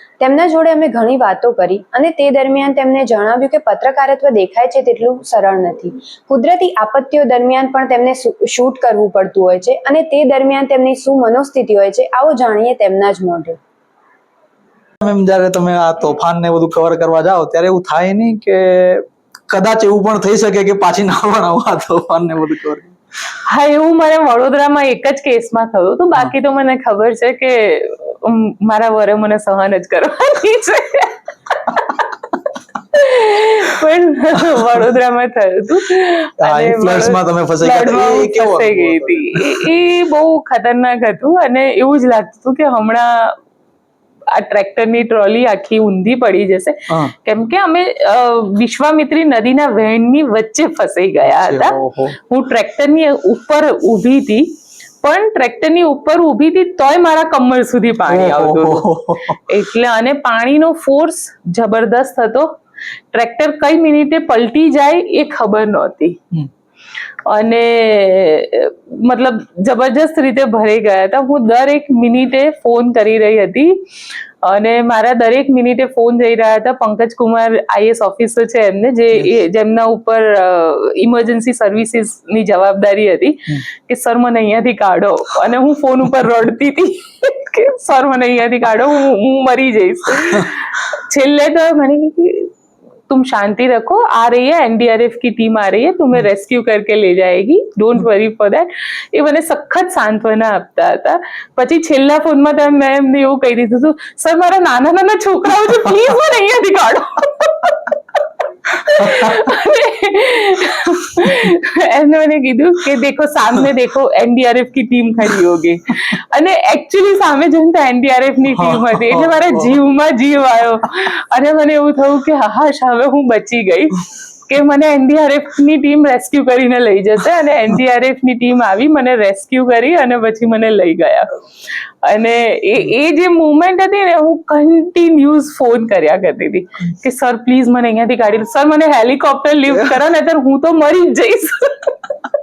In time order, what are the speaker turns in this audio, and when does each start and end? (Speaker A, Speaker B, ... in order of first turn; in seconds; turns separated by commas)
Speaker A: 0.2-13.6, Speaker B: 15.0-22.9, Speaker C: 23.5-32.0, Speaker C: 32.9-43.4, Speaker B: 36.4-39.7, Speaker C: 44.3-58.9, Speaker B: 51.3-52.2, Speaker B: 58.0-59.4, Speaker C: 59.5-62.5, Speaker C: 63.1-66.2, Speaker C: 67.2-73.8, Speaker C: 74.4-92.5, Speaker C: 93.1-108.0, Speaker C: 108.7-131.3, Speaker B: 109.0-109.5, Speaker B: 118.5-119.8, Speaker C: 132.0-142.2